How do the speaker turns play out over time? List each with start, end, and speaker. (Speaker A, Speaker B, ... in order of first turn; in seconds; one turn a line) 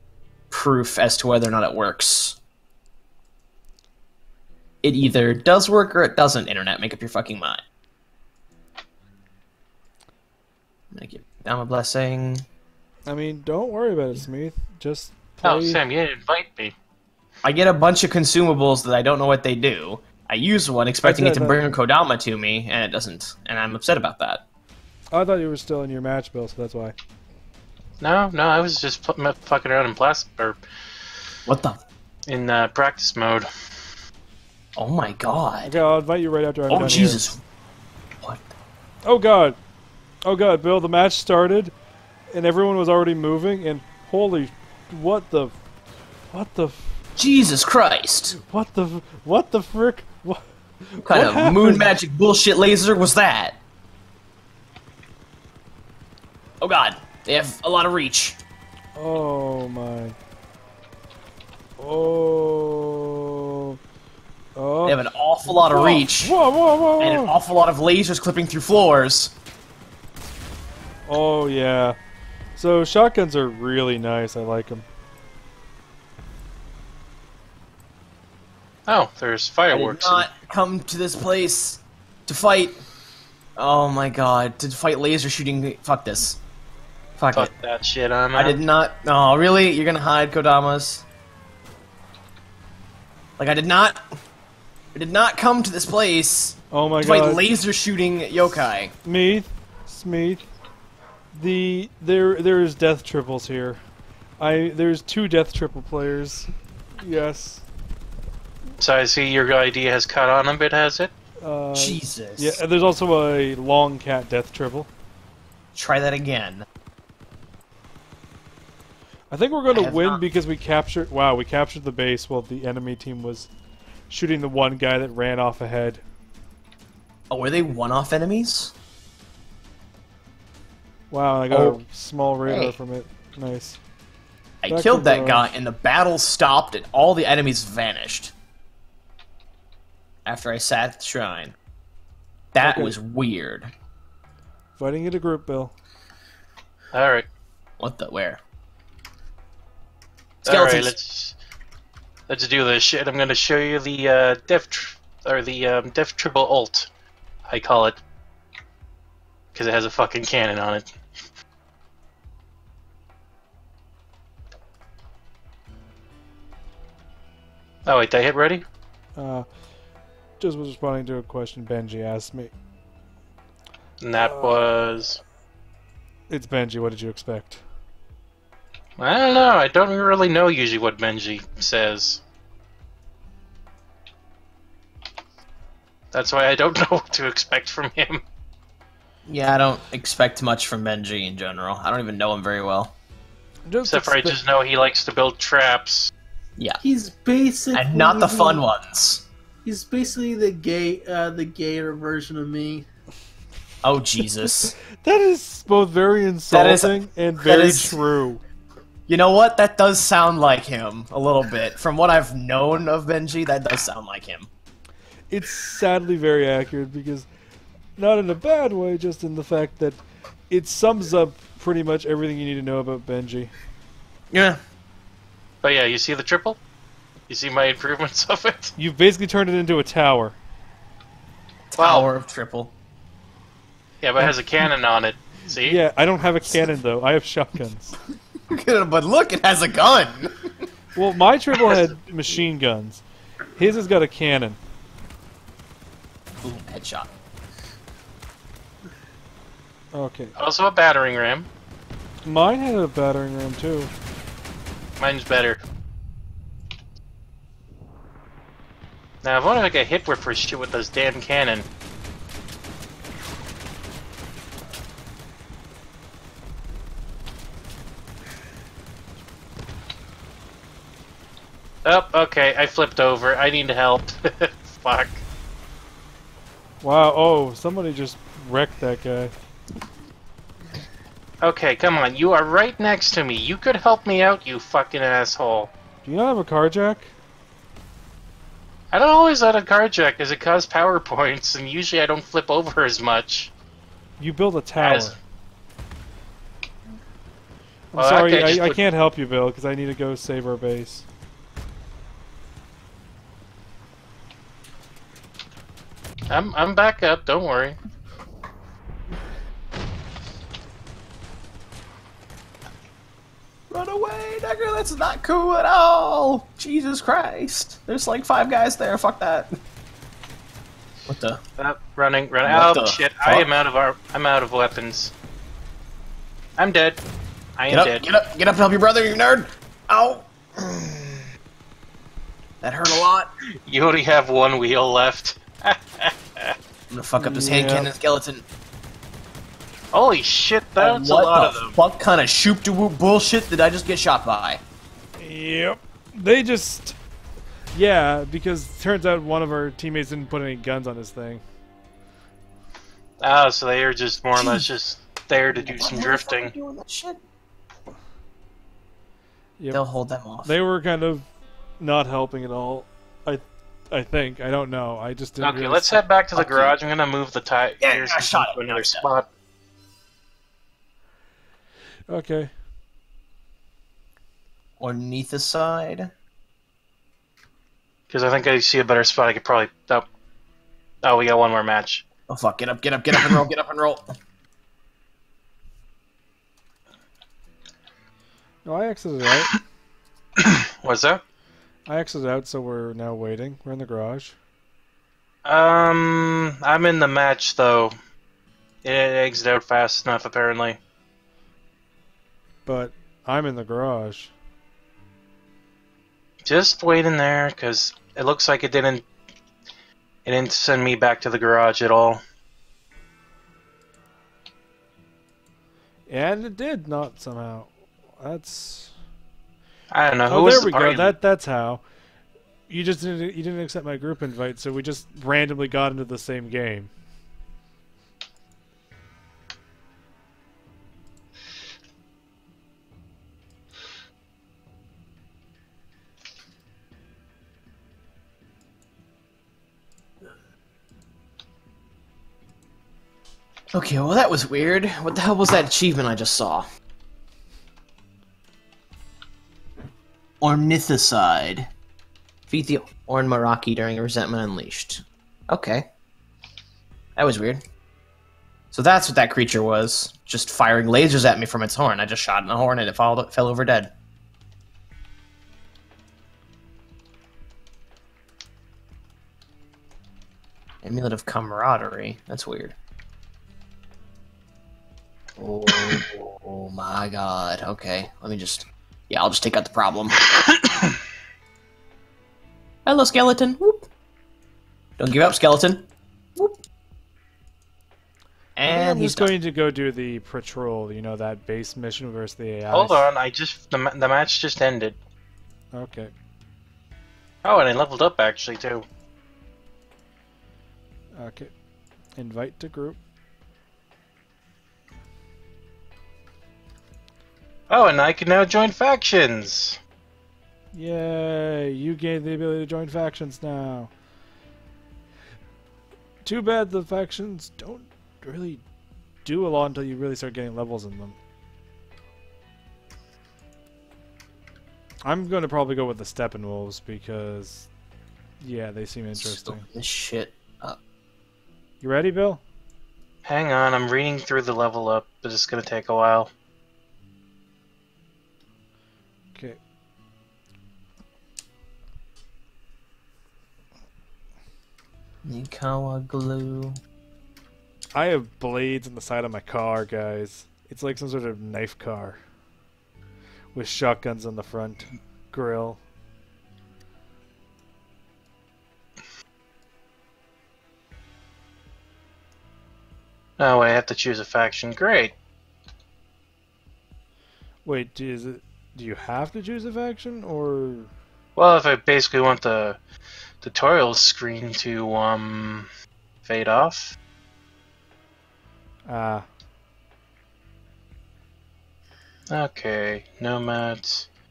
Speaker A: 0.5-2.4
Speaker A: 4.8-7.6
Speaker A: 10.9-12.4
Speaker B: 13.1-15.8
Speaker C: 15.4-16.7
Speaker A: 17.4-24.4
Speaker B: 21.0-21.6
Speaker B: 25.1-26.9
Speaker C: 28.0-30.6
Speaker A: 31.5-31.8
Speaker C: 32.3-33.5
Speaker A: 34.8-35.7
Speaker B: 35.6-37.3
Speaker A: 36.7-37.4
Speaker A: 38.2-38.5
Speaker B: 39.0-39.6
Speaker B: 40.2-41.7
Speaker B: 42.3-45.5
Speaker B: 46.3-46.9
Speaker A: 47.2-48.4
Speaker B: 48.3-51.9
Speaker A: 51.0-53.6
Speaker A: 56.6-58.4
Speaker B: 58.9-60.1
Speaker B: 61.8-63.8
Speaker B: 64.5-67.3
Speaker A: 64.8-66.3
Speaker A: 67.0-69.3
Speaker B: 71.0-72.0
Speaker B: 72.5-74.8
Speaker C: 78.9-80.3
Speaker A: 79.7-82.8
Speaker A: 83.6-86.4
Speaker A: 87.2-87.5
Speaker C: 87.3-88.6
Speaker A: 88.3-91.0
Speaker A: 93.4-94.0
Speaker A: 94.9-98.9
Speaker B: 96.7-97.4
Speaker B: 99.0-100.5
Speaker B: 101.3-103.8
Speaker B: 104.4-107.6
Speaker C: 108.8-111.1
Speaker B: 111.4-114.9
Speaker A: 111.7-112.6
Speaker A: 115.7-116.6
Speaker B: 119.3-123.5
Speaker A: 119.7-120.2
Speaker B: 124.1-126.0
Speaker A: 127.3-128.7
Speaker B: 131.1-133.8
Speaker A: 131.5-131.8
Speaker A: 132.4-132.8
Speaker A: 134.6-138.3
Speaker B: 134.7-135.5
Speaker A: 140.2-141.6
Speaker A: 142.5-143.7
Speaker B: 142.6-142.9
Speaker B: 144.8-145.7
Speaker C: 146.9-147.3
Speaker A: 147.8-148.4
Speaker C: 150.4-151.3
Speaker A: 150.4-150.9
Speaker C: 152.3-156.9
Speaker C: 157.5-158.0
Speaker C: 159.5-160.9
Speaker C: 167.8-168.6
Speaker B: 169.2-169.4
Speaker B: 170.4-172.5
Speaker C: 174.0-175.2
Speaker B: 174.1-174.7
Speaker B: 176.3-177.6
Speaker C: 179.0-182.2
Speaker C: 186.1-188.2
Speaker A: 189.2-192.9
Speaker B: 193.7-194.4
Speaker C: 193.8-196.1
Speaker D: 196.8-198.6
Speaker A: 197.7-199.2
Speaker D: 199.6-202.9
Speaker A: 203.8-204.7
Speaker B: 204.4-208.4
Speaker A: 206.5-208.0
Speaker A: 209.1-214.5
Speaker B: 215.3-217.3
Speaker B: 217.9-223.5
Speaker A: 224.3-224.6
Speaker C: 225.6-226.6
Speaker C: 227.3-228.7
Speaker B: 228.8-230.3
Speaker A: 231.7-232.7
Speaker C: 231.8-232.1
Speaker C: 234.0-235.8
Speaker B: 234.2-234.7
Speaker B: 235.6-237.9
Speaker A: 238.5-240.3
Speaker B: 240.9-243.0
Speaker B: 243.6-244.6
Speaker A: 246.4-247.1
Speaker B: 249.9-250.3
Speaker C: 250.3-251.5
Speaker B: 252.2-253.9
Speaker C: 255.0-255.6
Speaker C: 259.2-261.6
Speaker C: 271.8-275.2
Speaker B: 276.8-279.3
Speaker C: 281.4-285.7
Speaker B: 286.0-287.1
Speaker C: 288.9-293.5
Speaker B: 294.2-295.2
Speaker C: 294.8-295.2
Speaker B: 297.9-301.1
Speaker C: 297.9-298.8
Speaker C: 306.3-307.8
Speaker A: 313.7-319.5
Speaker A: 321.1-321.4
Speaker C: 321.6-325.1
Speaker A: 322.4-323.5
Speaker C: 326.6-327.0
Speaker C: 327.6-328.0
Speaker A: 327.7-331.2
Speaker A: 332.6-333.3
Speaker C: 333.6-336.5
Speaker A: 336.9-338.4
Speaker B: 337.2-337.9
Speaker C: 339.9-341.8
Speaker A: 340.8-344.6
Speaker B: 345.2-347.0
Speaker B: 347.7-351.4
Speaker C: 353.2-356.5
Speaker A: 354.3-354.6
Speaker A: 355.3-357.2
Speaker A: 359.7-360.5
Speaker B: 360.4-361.3
Speaker B: 361.8-366.0
Speaker C: 365.4-369.3
Speaker A: 366.3-366.8
Speaker A: 367.8-369.1
Speaker B: 372.1-372.5
Speaker A: 374.8-376.1
Speaker C: 378.1-380.1
Speaker C: 381.0-382.0
Speaker A: 382.3-384.0
Speaker B: 388.6-389.5
Speaker C: 390.4-391.2
Speaker B: 391.9-394.4
Speaker C: 395.4-397.9
Speaker C: 398.8-400.8
Speaker B: 402.6-404.3
Speaker C: 406.4-409.0
Speaker C: 410.2-412.2
Speaker B: 416.1-418.9
Speaker C: 419.9-421.1
Speaker B: 420.3-421.8
Speaker B: 422.7-426.9
Speaker A: 443.7-446.6
Speaker A: 450.4-451.7
Speaker A: 452.5-455.9
Speaker A: 457.2-457.6
Speaker A: 458.7-463.9
Speaker A: 470.8-472.8
Speaker A: 475.4-480.2
Speaker C: 480.4-480.9
Speaker A: 482.8-483.9
Speaker A: 485.0-486.6
Speaker A: 488.6-489.3
Speaker B: 488.6-493.1
Speaker C: 492.7-495.0
Speaker B: 495.7-496.1
Speaker C: 497.4-498.8
Speaker B: 501.1-501.5
Speaker B: 502.1-503.0
Speaker C: 507.7-509.8
Speaker B: 510.7-513.9
Speaker B: 516.2-518.6
Speaker B: 519.2-521.2
Speaker B: 525.0-527.7
Speaker B: 528.4-529.6
Speaker A: 529.1-530.8
Speaker B: 531.8-532.4
Speaker C: 533.2-536.3
Speaker A: 545.2-546.8
Speaker B: 547.9-552.2
Speaker B: 553.5-555.8
Speaker C: 563.4-565.1
Speaker B: 567.6-570.9
Speaker C: 571.4-572.8
Speaker C: 573.4-575.7
Speaker C: 576.2-577.0
Speaker B: 578.9-579.2
Speaker C: 582.3-584.0